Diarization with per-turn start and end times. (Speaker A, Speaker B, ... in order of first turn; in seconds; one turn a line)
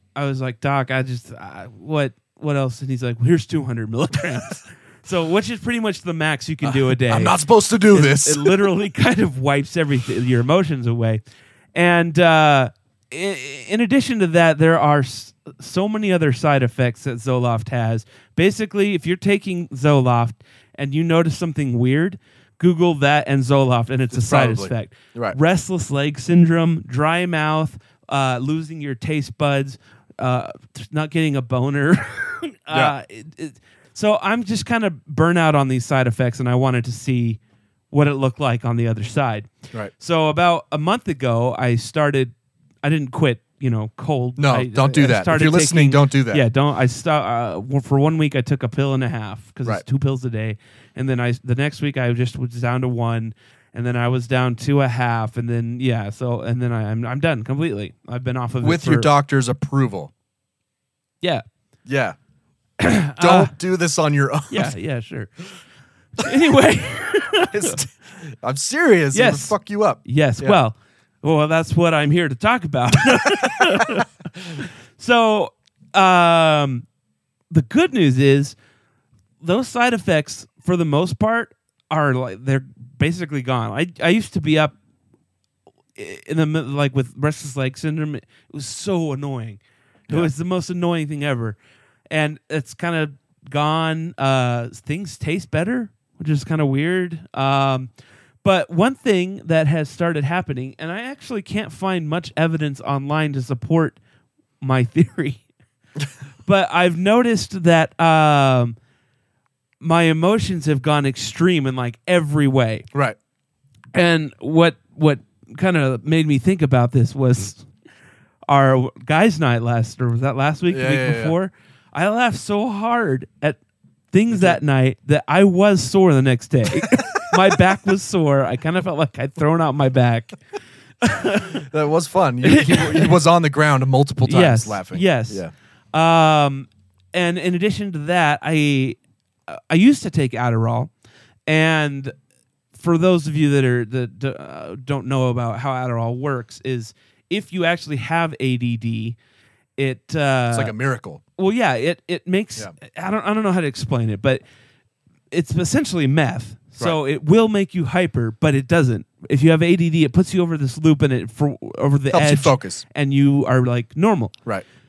Speaker A: 0.2-7.4
Speaker B: 6.6-8.7
Speaker A: 7.9-11.2
Speaker A: 11.8-37.4
Speaker B: 24.1-25.4
Speaker A: 37.9-59.1
Speaker B: 44.4-46.5
Speaker B: 58.6-60.1
Speaker B: 61.9-62.2
Speaker A: 62.8-63.5
Speaker B: 63.2-64.7
Speaker A: 64.5-65.3
Speaker A: 66.2-67.8
Speaker B: 67.5-70.6
Speaker A: 69.1-74.1
Speaker A: 74.6-76.8
Speaker A: 77.5-78.5
Speaker A: 79.4-84.8
Speaker A: 86.0-91.6
Speaker A: 92.1-97.9
Speaker A: 98.4-104.0
Speaker A: 104.6-105.4
Speaker A: 106.5-108.8
Speaker A: 109.8-112.9
Speaker A: 113.9-117.7
Speaker A: 118.5-123.6
Speaker B: 120.7-121.4
Speaker A: 124.1-130.4
Speaker B: 124.3-124.6
Speaker B: 126.9-127.4
Speaker A: 131.0-131.6
Speaker B: 131.5-135.5
Speaker A: 132.4-133.2
Speaker A: 134.2-140.9
Speaker A: 141.5-142.1
Speaker A: 142.8-149.2
Speaker A: 149.8-150.7
Speaker B: 150.5-151.2
Speaker A: 151.4-154.4
Speaker A: 155.3-164.3
Speaker B: 162.1-162.8